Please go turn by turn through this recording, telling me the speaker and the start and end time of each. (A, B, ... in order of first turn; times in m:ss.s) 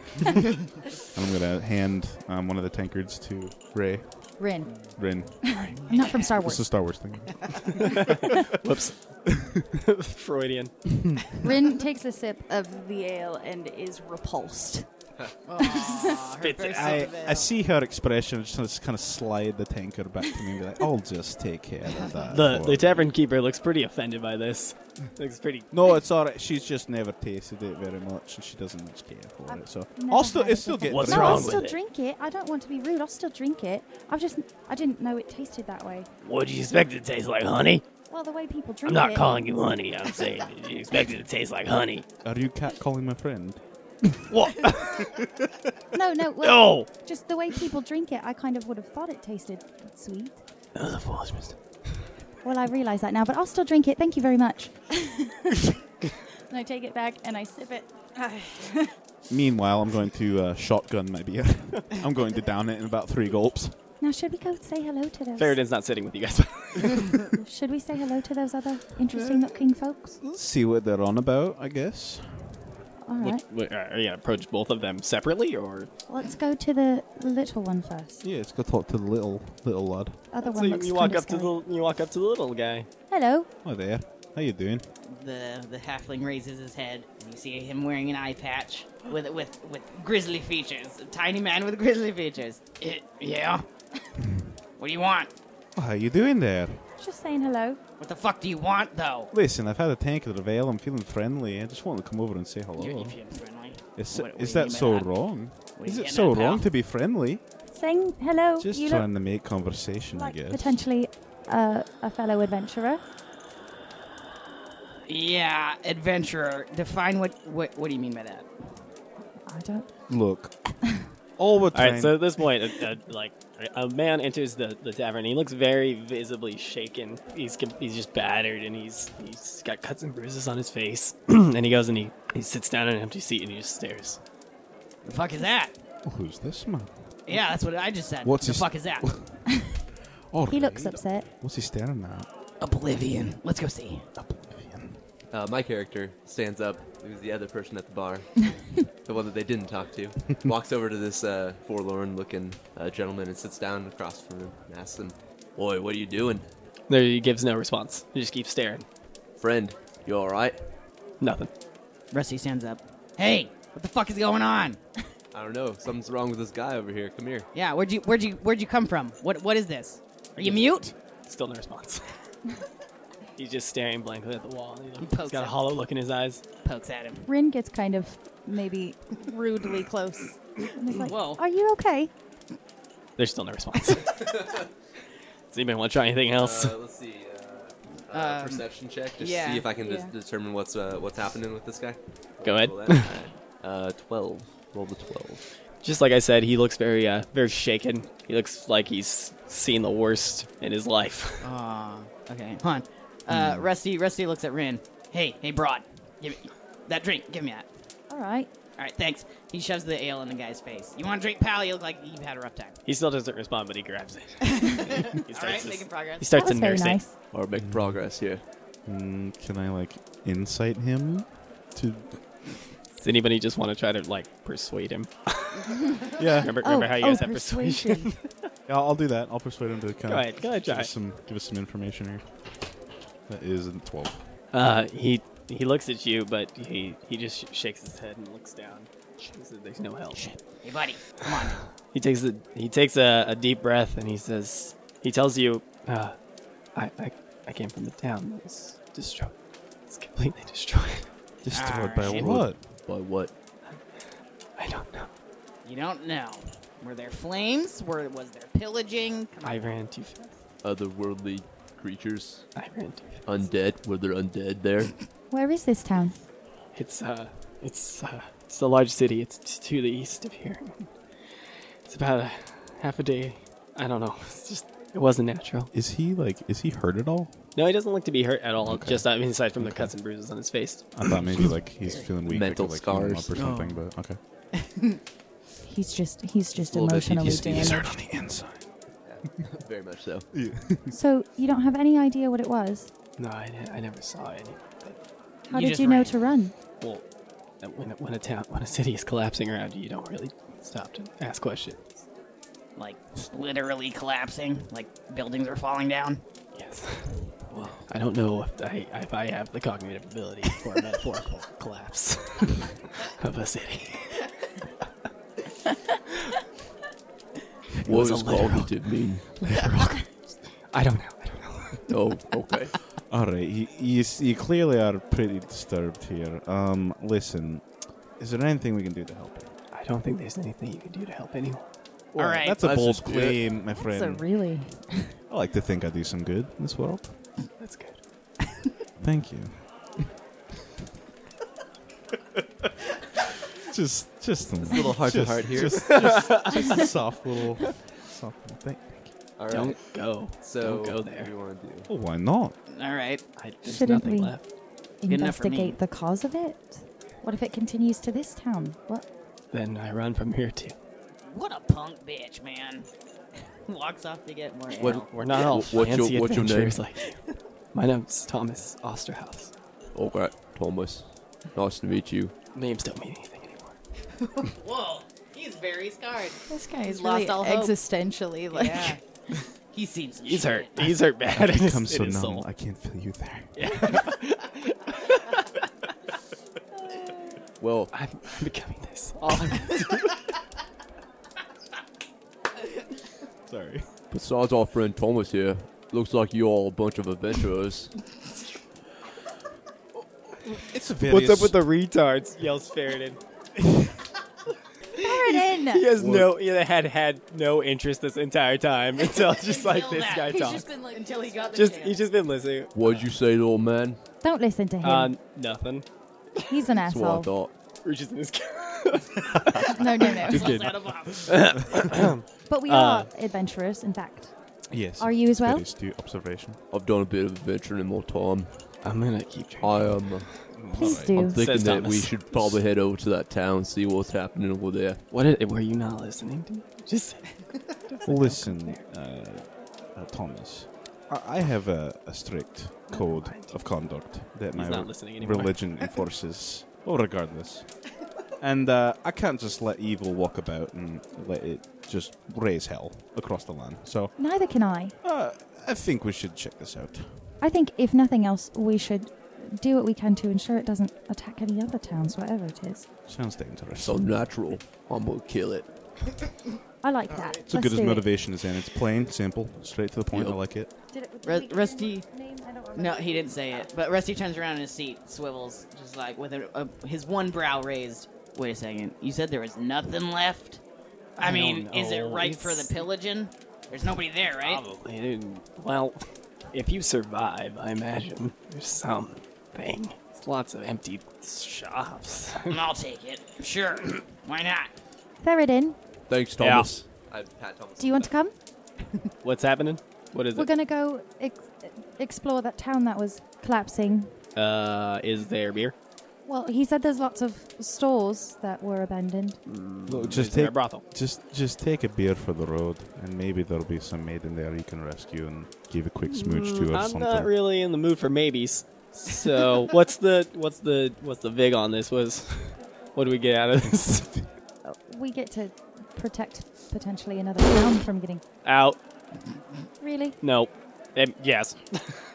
0:01.1-0:04.4 A
0:04.4-0:04.7 B
0:05.0-0:09.6 A
0:05.4-0:06.7 B
0:05.9-0:06.1 C
0:07.8-0:09.0 D
0:09.8-0:10.9 D
0:11.4-0:14.9 B
0:15.4-0:17.5 C
0:15.6-0:15.9 B
0:15.7-0:17.1 D
0:16.8-0:23.1 A
0:22.3-0:25.7 D
0:25.7-0:31.6 A
0:29.5-0:36.1 B
0:30.9-0:31.8 D
0:36.2-0:37.8 D
0:38.1-0:39.3 B
0:38.8-0:42.0 D
0:42.2-0:44.2 A
0:44.3-0:45.3 D
0:45.9-0:50.4 B
0:46.4-0:46.9 D
0:50.7-0:51.6 D
0:52.4-0:55.3 B
0:56.5-0:58.9 B
0:59.3-1:03.8 A
1:04.0-1:05.6 B
1:05.4-1:07.3 D
1:07.4-1:10.2 B
1:09.1-1:09.6 A
1:10.2-1:12.6 A
1:13.0-1:13.4 B
1:13.2-1:15.9 D
1:16.1-1:18.2 B
1:18.2-1:20.2 A
1:20.3-1:21.5 B
1:20.4-1:22.9 D
1:23.1-1:23.5 B
1:23.6-1:24.8 A
1:25.1-1:33.6 C
1:34.8-1:35.3 C
1:35.8-1:36.8 A
1:37.0-1:37.8 B
1:38.0-1:39.3 C
1:39.3-1:43.2 A
1:42.8-1:45.1 C
1:44.0-1:47.4 A
1:45.8-1:46.6 C
1:47.7-1:49.1 B
1:48.6-1:50.8 A
1:50.1-1:53.0 B
1:55.1-1:58.5 C
1:59.4-1:59.9 B
2:00.1-2:00.7 A
2:01.4-2:02.2 A
2:01.7-2:14.2 D
2:15.0-2:15.7 C
2:16.0-2:16.9 A
2:17.3-2:19.1 C
2:18.2-2:19.4 A
2:20.3-2:22.3 A
2:20.5-2:21.3 B
2:22.6-2:24.0 C
2:24.2-2:25.0 A
2:25.3-2:36.4 E
2:36.9-2:38.8 D
2:39.4-2:40.6 E
2:41.2-2:41.5 D
2:42.1-2:44.8 C
2:45.3-2:47.5 E
2:47.5-2:50.9 C
2:50.4-2:52.0 D
2:53.4-2:56.4 D
2:55.0-2:55.6 C
2:56.6-2:57.2 C
2:57.2-3:02.1 B
3:01.0-3:01.4 C
3:03.2-3:04.2 D
3:04.1-3:04.7 E
3:05.5-3:06.8 D
3:06.4-3:15.4 E
3:08.1-3:09.7 C
3:09.8-3:10.1 B
3:12.4-3:13.2 D
3:15.8-3:21.5 D
3:21.4-3:27.6 C
3:23.3-3:23.6 A
3:28.1-3:28.5 B
3:28.8-3:32.8 C
3:32.8-3:37.0 D
3:34.6-3:36.3 C
3:36.3-3:37.1 B
3:37.3-3:38.4 E
3:37.6-3:38.0 A
3:38.8-3:42.2 A
3:43.0-3:48.2 D
3:46.2-3:46.6 A
3:46.6-3:48.1 B
3:48.7-3:52.2 A
3:50.1-3:50.9 D
3:53.3-3:54.2 A
3:54.5-4:00.3 D
4:00.2-4:01.6 C
4:01.9-4:06.1 D
4:06.7-4:09.3 D
4:09.9-4:11.1 D
4:11.4-4:12.6 A
4:11.5-4:12.4 C
4:12.0-4:13.3 E
4:14.6-4:15.1 D
4:15.6-4:19.6 C
4:19.4-4:20.3 D
4:20.6-4:22.4 E
4:22.5-4:23.2 D
4:23.2-4:24.9 E
4:25.3-4:26.2 B
4:26.7-4:30.9 D
4:31.9-4:35.7 D
4:35.7-4:37.4 A
4:37.6-4:41.5 D
4:38.6-4:39.9 A
4:40.9-4:44.2 A
4:42.2-4:43.3 E
4:43.3-4:43.8 C
4:44.6-4:45.0 C
4:45.6-4:47.9 B
4:46.6-4:47.8 E
4:47.2-4:48.6 A
4:49.0-4:50.3 E
4:50.3-4:50.9 A
4:50.9-4:52.9 B
4:53.2-4:55.0 D
4:55.5-4:56.1 C
4:55.5-4:56.5 B
4:57.6-5:02.0 D
5:02.8-5:06.2 C
5:06.5-5:07.3 D
5:07.5-5:07.8 C
5:07.9-5:14.2 D
5:17.8-5:20.1 D
5:17.8-5:19.4 E
5:20.7-5:21.9 D
5:21.9-5:22.7 E
5:23.1-5:27.6 A
5:28.2-5:29.5 A
5:29.7-5:31.6 D
5:32.1-5:34.2 A
5:32.1-5:32.6 C
5:32.6-5:33.4 E
5:33.8-5:35.1 B
5:35.3-5:37.1 A
5:37.6-5:38.0 D
5:39.0-5:40.1 A
5:43.6-5:49.1 A
5:44.6-5:46.1 E
5:45.8-5:46.8 D
5:49.4-5:49.8 E
5:49.5-5:51.3 D
5:50.3-5:51.9 E
5:51.9-5:52.5 A
5:52.7-5:53.2 C
5:53.4-5:54.4 D
5:53.6-5:54.4 B
5:55.0-5:59.0 B
5:55.1-5:55.8 C
5:59.5-6:00.7 D
6:01.3-6:02.9 C
6:03.7-6:05.2 C
6:04.8-6:06.8 E
6:04.9-6:07.2 D
6:07.7-6:09.5 D
6:09.9-6:12.3 E
6:12.5-6:13.8 D
6:14.3-6:17.7 C
6:16.5-6:19.0 B
6:18.5-6:19.0 C
6:19.7-6:20.9 C
6:20.2-6:22.4 D
6:21.3-6:24.0 A
6:23.6-6:25.6 D
6:27.6-6:27.9 E
6:27.9-6:30.2 D
6:33.5-6:33.9 A
6:34.1-6:37.9 E
6:40.5-6:43.2 D
6:40.6-6:41.6 A
6:45.0-6:45.8 B
6:45.0-6:50.6 D
6:46.0-6:46.3 A
6:49.1-6:52.0 C
6:50.3-6:51.2 B
6:51.5-6:53.0 D
6:52.7-6:54.0 E
6:54.2-6:55.1 B
6:54.8-6:55.8 D
6:56.5-6:57.3 B
6:56.8-6:57.5 E
6:57.8-7:03.1 D
6:59.7-7:00.5 B
7:00.0-7:01.8 C
7:02.5-7:04.3 B
7:04.7-7:06.6 A
7:05.0-7:05.6 B
7:06.7-7:08.7 E
7:08.8-7:10.4 D
7:09.6-7:15.0 E
7:10.5-7:11.2 A
7:10.7-7:11.4 B
7:11.2-7:12.6 D
7:15.1-7:18.8 D
7:18.0-7:27.7 A
7:22.9-7:23.6 D
7:24.5-7:25.6 D
7:28.4-7:34.1 A
7:34.2-7:34.9 B
7:35.0-7:37.1 A
7:37.4-7:42.8 B
7:43.1-7:44.0 A
7:43.8-7:45.7 E
7:46.8-7:48.1 B
7:47.4-7:50.7 A
7:50.1-7:50.4 E
7:50.9-7:53.7 B
7:51.2-7:52.0 C
7:52.7-8:00.6 C
8:01.2-8:02.8 D
8:01.2-8:04.6 C
8:04.4-8:06.0 D
8:06.5-8:12.6 D
8:12.5-8:14.7 C
8:15.2-8:15.8 B
8:16.1-8:18.1 E
8:16.4-8:16.7 D
8:17.8-8:18.3 B
8:19.2-8:20.5 D
8:20.3-8:24.1 B
8:24.3-8:25.7 D
8:26.3-8:29.4 B
8:29.4-8:30.8 D
8:29.9-8:37.3 A
8:36.1-8:44.2 D
8:43.7-8:44.2 A
8:44.6-8:48.2 B
8:48.4-8:48.8 D
8:49.8-8:50.2 B
8:50.2-8:52.0 D